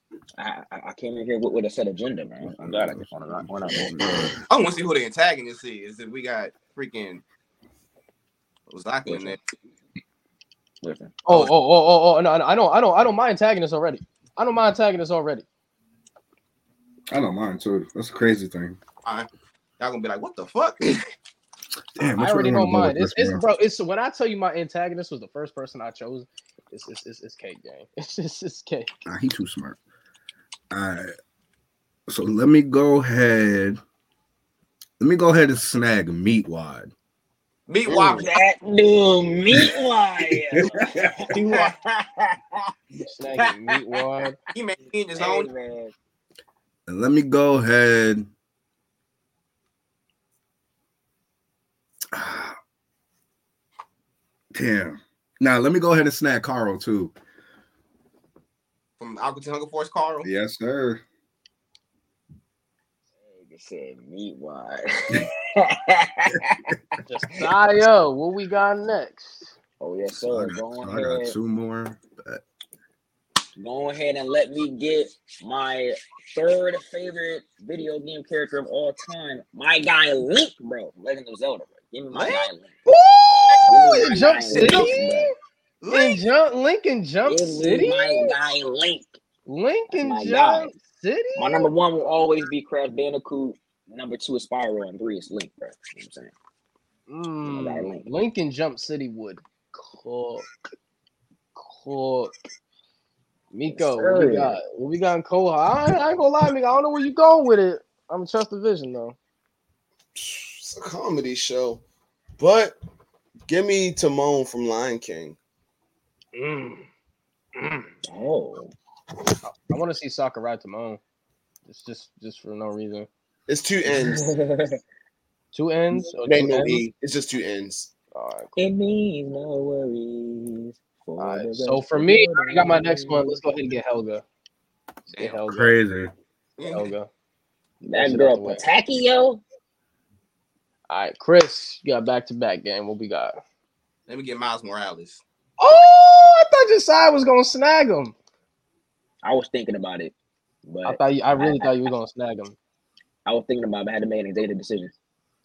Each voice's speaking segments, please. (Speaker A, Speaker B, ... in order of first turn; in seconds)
Speaker A: 0.4-4.4, 9.1-9.4, 10.8-11.2, 37.9-42.7, 45.1-45.9, 63.2-66.8, 69.8-71.3, 73.5-82.8, 83.6-85.3, 87.2-89.1, 89.9-90.7, 91.4-96.3, 97.4-98.1, 103.7-104.6, 118.0-118.7, 123.9-124.8, 128.6-133.3, 137.8-139.4, 149.2-150.1, 150.7-151.9, 153.3-154.9
Speaker B: 2.5-4.4, 17.1-18.8, 22.0-23.4, 29.1-29.8, 30.7-31.1, 32.1-33.8, 35.0-36.9, 40.3-41.3, 46.9-48.3, 52.1-52.6, 54.5-57.1, 60.2-61.0, 70.3-72.4, 135.5-136.1
Speaker C: 4.5-7.2, 8.7-9.4, 19.8-21.0, 37.7-38.3, 44.5-45.5, 59.0-60.3, 84.5-84.8, 85.8-86.2, 135.1-135.4, 136.6-136.9, 144.1-145.2
Speaker D: 11.3-15.4, 22.1-28.9, 43.0-44.4, 67.1-69.5, 82.1-85.3, 85.9-88.4, 89.5-91.7, 97.1-100.5, 101.5-102.3, 103.5-109.2, 116.3-116.9, 117.5-117.9, 119.5-121.0, 121.7-123.1, 125.5-126.8, 128.1-128.6, 131.2-134.2, 135.2-135.7, 136.7-137.1, 137.9-138.6, 140.9-143.4, 145.6-148.1, 150.8-152.6
Speaker E: 37.9-38.2, 110.1-111.8, 112.4-112.8, 113.5-115.4, 123.5-124.3, 126.2-127.9